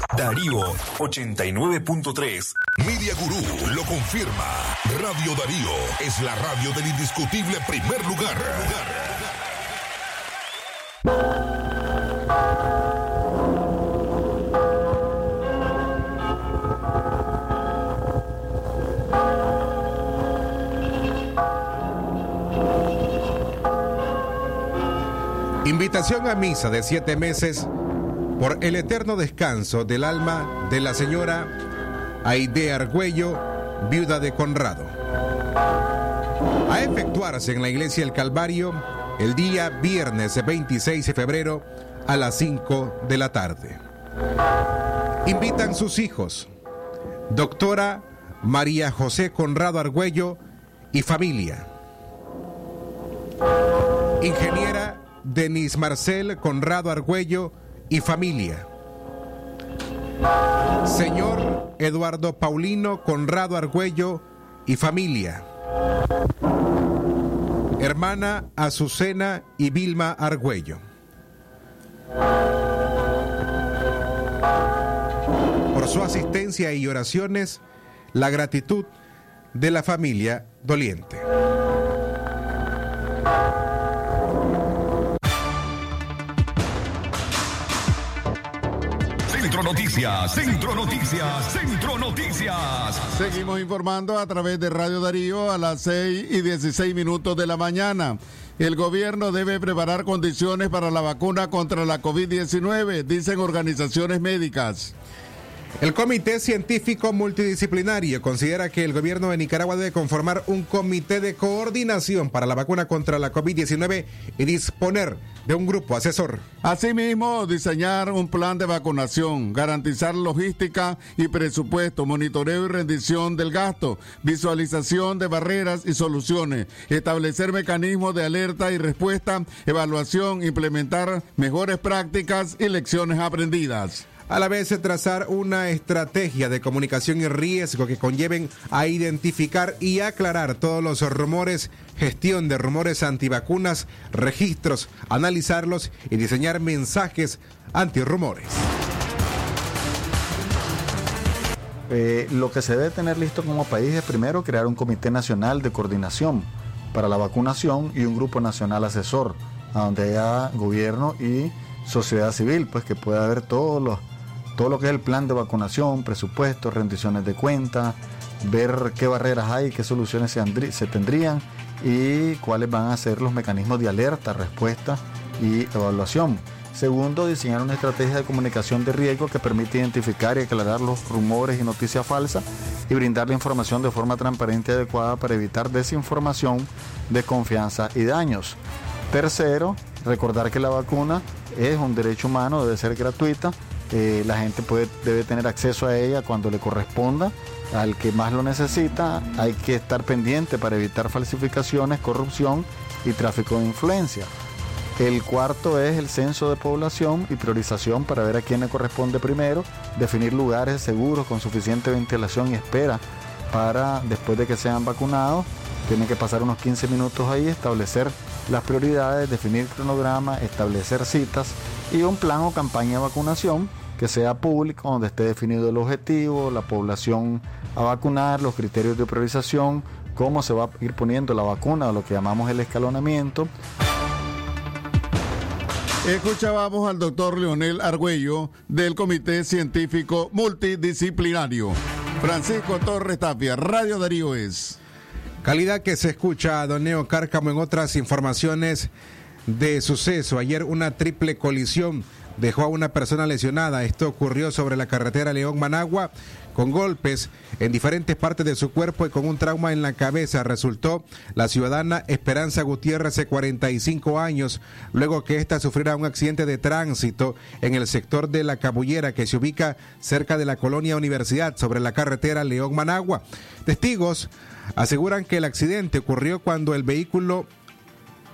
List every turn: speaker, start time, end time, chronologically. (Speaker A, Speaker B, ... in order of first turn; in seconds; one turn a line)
Speaker A: 0.1-2.7
Speaker B: 3.7-8.8
Speaker C: 25.6-27.7
Speaker C: 28.4-31.5
Speaker C: 32.2-34.9
Speaker C: 36.7-43.8
Speaker C: 45.2-46.5
Speaker C: 47.3-50.4
Speaker C: 50.9-51.7
Speaker C: 54.2-58.7
Speaker C: 60.9-65.4
Speaker C: 67.8-70.8
Speaker C: 75.7-77.6
Speaker C: 78.1-78.9
Speaker C: 79.5-81.2
Speaker D: 89.3-93.1
Speaker E: 93.1-104.9
Speaker C: 105.8-116.4
Speaker E: 116.6-134.1
Speaker C: 134.3-148.6
Speaker F: 151.9-164.0
Speaker F: 164.6-188.6
Speaker F: 189.1-204.3
Speaker F: 205.0-233.5
Speaker E: 236.1-244.8
Speaker C: 245.4-248.9
Speaker C: 249.5-277.5